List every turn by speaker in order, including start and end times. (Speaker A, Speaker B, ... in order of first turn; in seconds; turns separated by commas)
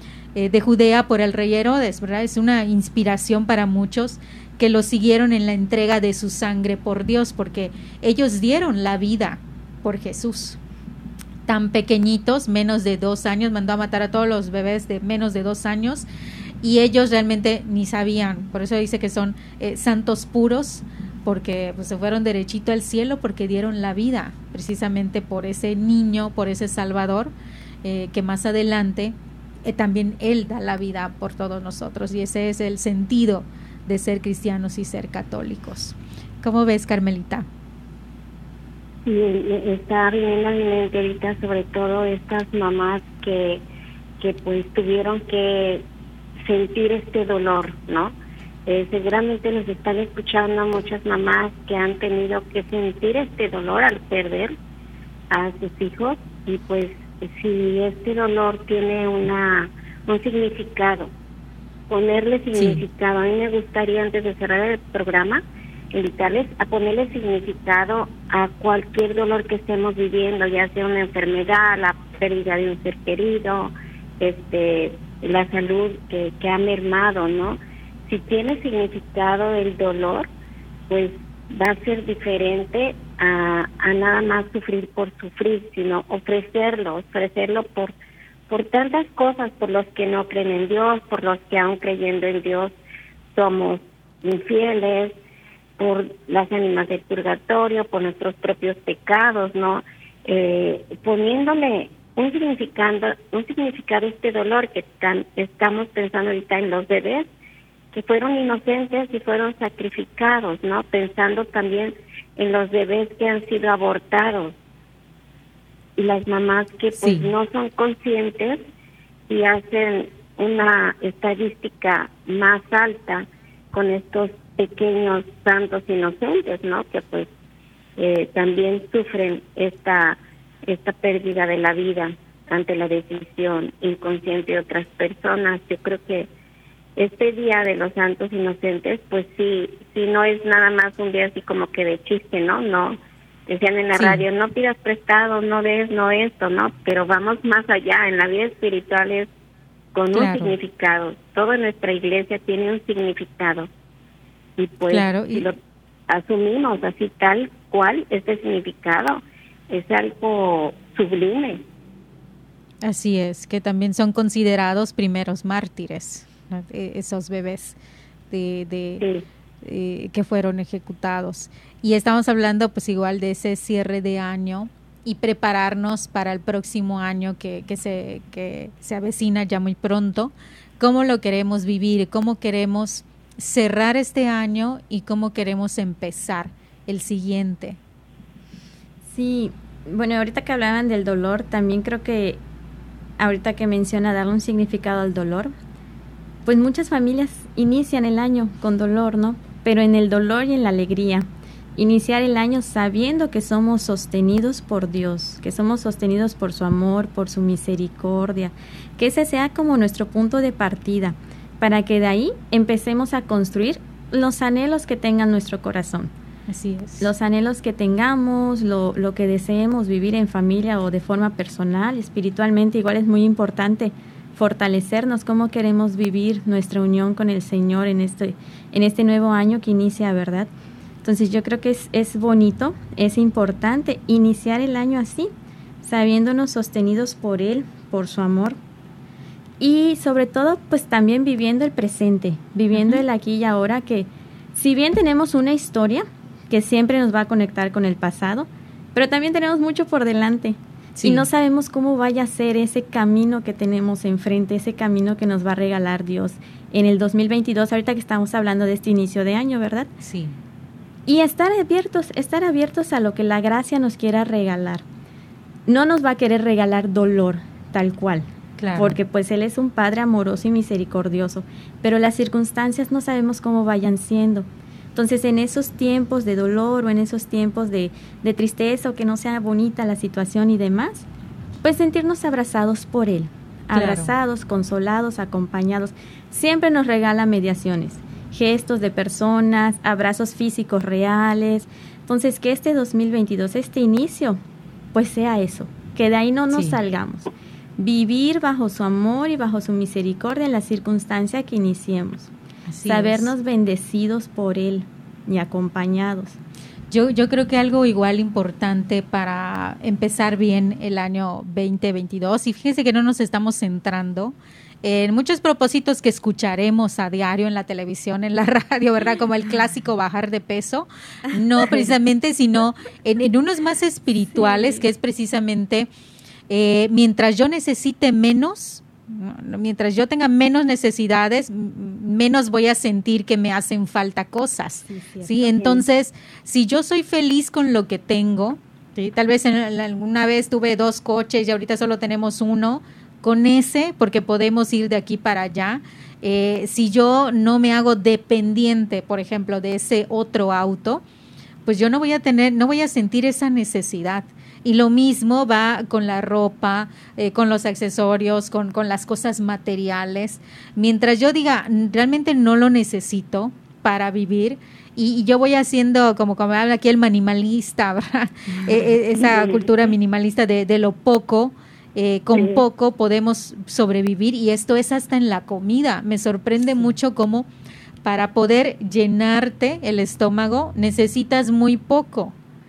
Speaker A: 0.3-10.6, Speaker A: 11.4-16.1, Speaker A: 16.6-27.3, Speaker A: 27.8-37.5, Speaker B: 39.0-43.6, Speaker B: 44.2-45.8, Speaker B: 46.4-48.1, Speaker B: 48.6-54.5, Speaker B: 55.3-61.1, Speaker B: 61.9-80.3, Speaker A: 62.5-62.8, Speaker B: 80.9-87.9, Speaker B: 88.5-92.7, Speaker B: 93.3-95.2, Speaker B: 95.8-107.3, Speaker B: 107.9-114.5, Speaker B: 116.0-118.6, Speaker A: 117.0-117.3, Speaker B: 119.3-127.3, Speaker B: 128.0-136.3, Speaker B: 136.9-149.3, Speaker A: 143.9-144.2, Speaker B: 149.9-153.7, Speaker A: 150.1-150.5, Speaker B: 154.6-155.6, Speaker A: 154.9-155.5, Speaker B: 156.1-161.6, Speaker A: 162.8-167.8, Speaker A: 168.3-169.0, Speaker A: 169.6-187.8, Speaker C: 189.1-192.4, Speaker C: 193.2-195.5, Speaker C: 196.4-216.1, Speaker A: 216.5-217.1, Speaker C: 217.0-230.5, Speaker C: 231.0-235.3, Speaker C: 235.8-238.6, Speaker C: 239.6-259.9, Speaker A: 242.8-243.0, Speaker A: 250.9-251.3, Speaker A: 260.0-260.3, Speaker C: 261.1-264.8, Speaker C: 265.7-281.1, Speaker A: 268.6-269.0, Speaker C: 281.6-294.4, Speaker A: 283.7-284.1, Speaker C: 294.9-302.3, Speaker A: 296.5-296.8, Speaker A: 302.7-303.3, Speaker C: 302.8-306.4, Speaker A: 306.9-325.9, Speaker A: 326.5-351.0, Speaker C: 334.9-335.8, Speaker A: 351.6-377.5, Speaker B: 369.2-369.7, Speaker B: 372.3-372.6, Speaker A: 378.0-382.3